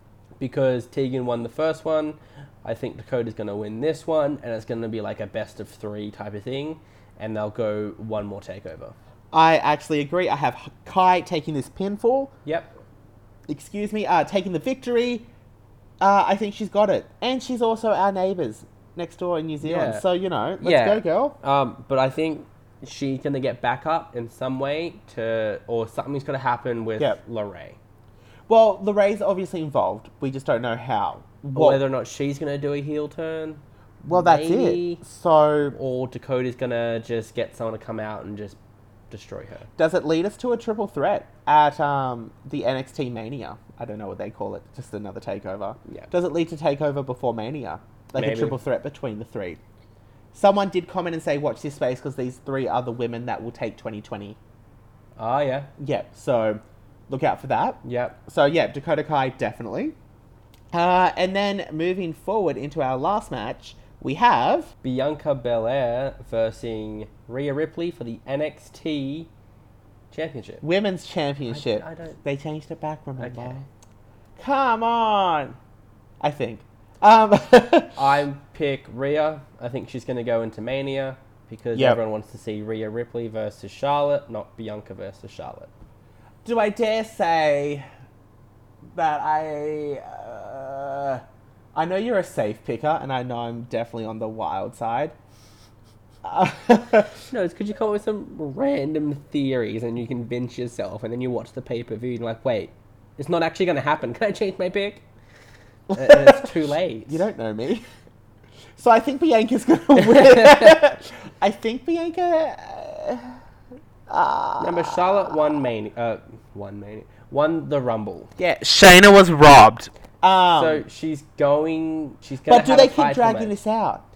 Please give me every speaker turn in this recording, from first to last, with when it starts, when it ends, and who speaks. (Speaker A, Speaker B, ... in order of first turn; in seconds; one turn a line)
Speaker A: 0.4-8.9
Speaker B: 9.3-12.3
Speaker A: 12.5-12.7
Speaker B: 13.5-15.3
Speaker B: 16.0-21.4
Speaker A: 19.6-20.0
Speaker A: 20.6-27.8
Speaker B: 28.5-31.8
Speaker A: 31.6-35.0
Speaker B: 34.0-35.8
Speaker A: 35.7-38.6
Speaker A: 39.1-39.7
Speaker B: 39.8-49.6
Speaker A: 48.2-48.6
Speaker B: 50.3-54.4
Speaker A: 55.2-55.7
Speaker B: 55.8-60.0
Speaker A: 57.8-58.2
Speaker B: 60.7-64.7
Speaker A: 64.8-69.3
Speaker A: 70.1-70.6
Speaker B: 70.6-73.6
Speaker A: 71.5-72.2
Speaker A: 73.2-73.7
Speaker B: 74.4-75.6
Speaker B: 76.2-78.0
Speaker A: 78.0-85.7
Speaker B: 81.8-82.0
Speaker B: 86.5-87.9
Speaker B: 89.0-95.2
Speaker B: 96.2-97.1
Speaker A: 97.3-105.0
Speaker B: 105.9-106.5
Speaker A: 105.9-107.2
Speaker B: 107.1-107.8
Speaker B: 108.8-113.4
Speaker A: 110.1-110.6
Speaker B: 114.1-115.4
Speaker A: 114.6-118.3
Speaker B: 118.4-120.8
Speaker A: 120.6-123.5
Speaker B: 122.5-124.0